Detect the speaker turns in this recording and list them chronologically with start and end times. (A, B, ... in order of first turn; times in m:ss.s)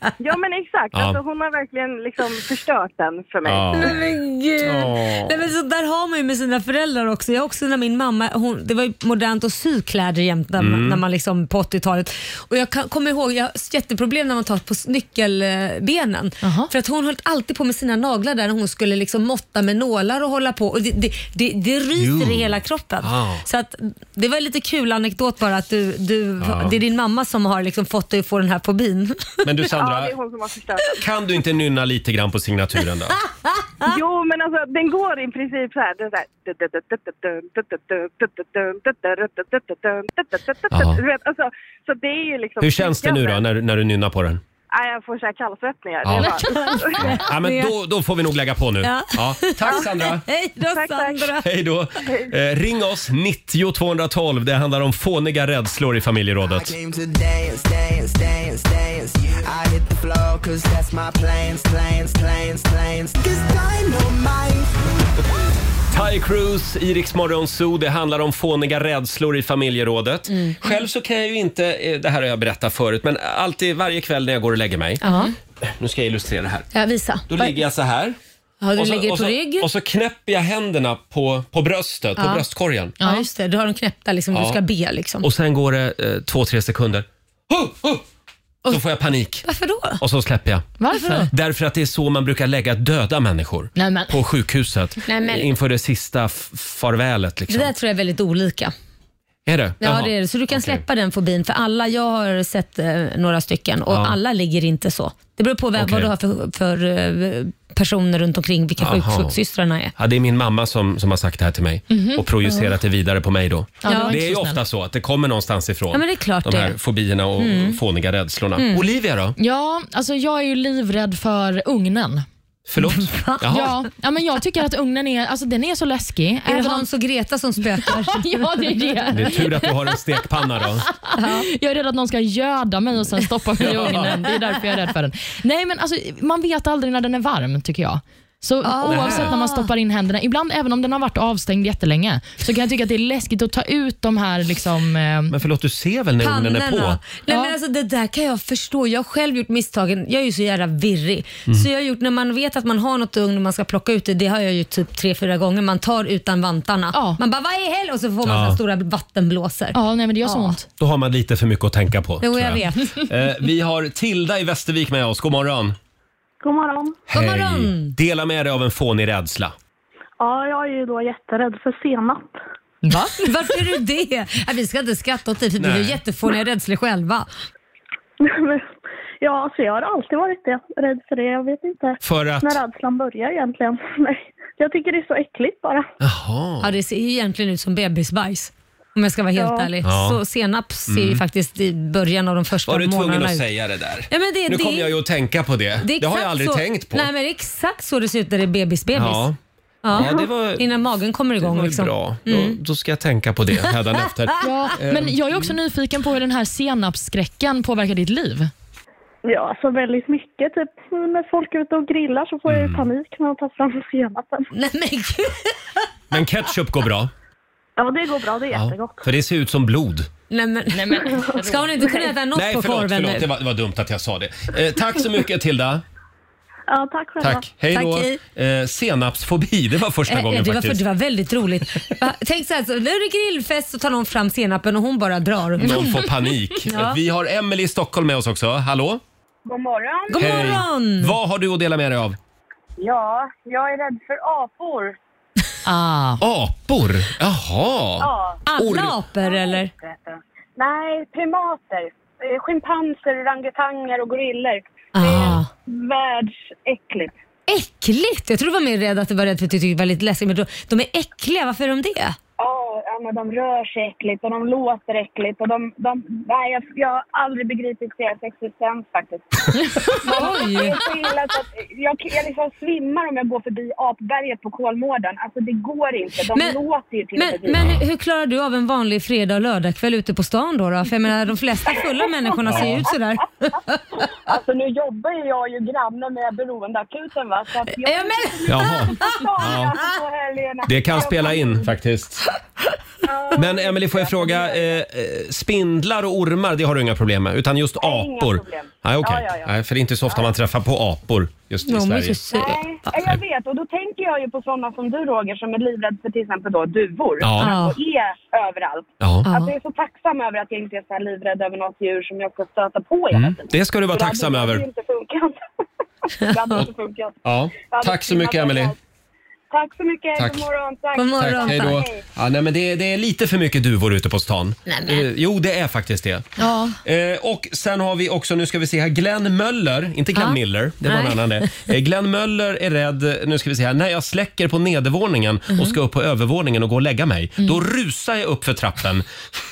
0:00.2-0:04.0 A
0:00.9-0:01.2 B
0:03.4-0:04.0 B
0:03.7-0:29.5 C
0:04.6-0:05.4 B
0:10.6-0:11.0 B
0:16.4-0:16.7 D
0:22.0-0:23.4 B
0:26.4-0:26.8 B
0:29.4-0:30.1 B
0:29.8-0:31.0 A
0:31.0-0:33.2 B
0:33.8-0:43.4 A
0:40.7-0:41.0 B
0:42.6-0:44.4 B
0:44.7-0:47.0 A
0:46.0-0:46.4 B
0:46.5-0:47.7 C
0:47.0-0:50.2 B
0:48.8-0:51.4 C
0:50.6-0:51.3 A
0:51.4-0:56.8 B
0:56.4-1:04.7 E
1:05.9-1:15.0 B
1:10.3-1:10.7 C
1:15.0-1:15.3 C
1:15.6-1:16.7 B
1:16.7-1:17.6 C
1:17.3-1:18.2 B
1:18.6-1:19.7 C
1:18.8-1:22.9 B
1:22.2-1:22.4 C
1:23.0-1:23.2 D
1:23.0-1:25.2 C
1:24.3-1:24.6 B
1:25.2-1:28.0 B
1:28.7-1:29.4 B
1:29.4-1:30.0 C
1:30.0-1:30.7 B
1:30.8-1:31.3 D
1:30.9-1:31.3 C
1:31.3-1:37.7 B
1:33.8-1:34.1 D
1:35.1-1:35.5 C
1:37.5-1:38.7 C
1:39.4-1:40.8 B
1:39.8-1:49.9 C
1:43.9-1:44.2 B
1:45.8-1:46.1 B
1:48.8-1:49.4 B
1:50.0-1:59.3 B
1:51.9-1:52.2 D
1:53.8-1:54.6 D
1:53.9-1:54.2 C
1:55.9-1:56.8 C
1:57.4-1:57.8 C
1:58.6-1:58.8 C
1:59.4-2:02.2 D
2:02.7-2:03.7 B
2:02.8-2:03.7 C
2:03.5-2:06.9 D
2:06.5-2:08.6 C
2:07.8-2:09.8 D
2:09.1-2:10.8 B
2:10.9-2:25.3 D
2:11.2-2:11.5 C
2:13.6-2:14.1 B
2:13.7-2:14.1 C
2:18.6-2:19.7 C
2:18.8-2:19.3 B
2:25.3-2:27.0 B
2:26.2-2:40.6 C
2:27.3-2:27.5 D
2:36.9-2:37.2 D
2:38.2-2:38.6 B
2:39.7-2:40.6 D
2:40.8-2:45.8 B
2:42.2-2:43.0 C
2:46.4-2:47.0 F
2:47.1-2:49.5 B
2:47.1-2:47.9 C
2:50.2-2:52.3 F
2:52.8-2:53.3 D
2:53.2-2:57.3 C
2:55.6-2:56.0 B
2:58.2-2:58.7 F
2:59.2-3:05.9 F
3:02.0-3:02.6 B
3:06.0-3:06.7 B
3:06.6-3:13.4 C
3:09.3-3:09.7 F
3:09.8-3:10.2 B
3:10.9-3:11.2 B
3:12.6-3:17.1 B
3:14.1-3:14.9 C
3:15.8-3:19.3 C
3:18.9-3:19.4 B
3:19.8-3:22.6 C
3:19.9-3:20.7 B
3:21.4-3:25.6 B
3:24.4-3:28.5 D
3:29.2-3:34.5 F
3:32.4-3:32.9 B
3:34.5-3:35.5 C
3:36.1-3:37.1 B
3:37.8-3:39.0 F
3:38.5-3:40.1 B
3:40.3-3:43.3 C
3:40.7-3:41.7 D
3:42.3-3:45.8 B
3:46.7-3:47.4 F
3:47.2-3:50.8 B
3:47.7-3:48.2 C
3:50.1-3:56.1 C
3:55.6-3:59.0 B
3:56.7-3:57.0 C
3:59.4-4:00.6 G
4:00.1-4:01.1 C
4:00.2-4:02.2 B
4:02.8-4:05.0 G
4:05.6-4:06.2 D
4:06.2-4:09.0 B
4:08.0-4:08.4 G
4:08.4-4:09.7 C
4:09.2-4:17.1 G
4:14.9-4:15.5 C
4:15.0-4:15.4 B
4:17.5-4:22.2 C
4:22.4-4:29.3 G
4:29.9-4:30.8 C
4:30.0-4:37.6 G
4:37.2-4:43.8 C
4:37.5-4:37.8 B
4:42.4-4:42.9 B
4:44.2-4:51.7 G
4:47.8-4:49.2 C
4:48.5-4:49.7 B
4:50.6-4:52.2 B
4:53.0-4:54.8 G
4:53.3-5:02.2 B
4:57.8-4:59.5 G
5:01.7-5:02.9 C
5:02.3-5:15.4 G
5:07.2-5:07.5 B
5:07.4-5:07.8 C
5:09.0-5:09.3 B
5:09.2-5:09.5 C
5:13.1-5:14.6 B
5:16.1-5:18.8 G
5:17.2-5:18.7 B
5:19.5-5:22.0 G
5:20.2-5:20.4 B
5:21.0-5:21.8 C
5:21.2-5:26.3 B
5:24.7-5:25.0 C
5:26.4-5:26.7 D
5:26.8-5:39.0 B
5:30.1-5:31.7 C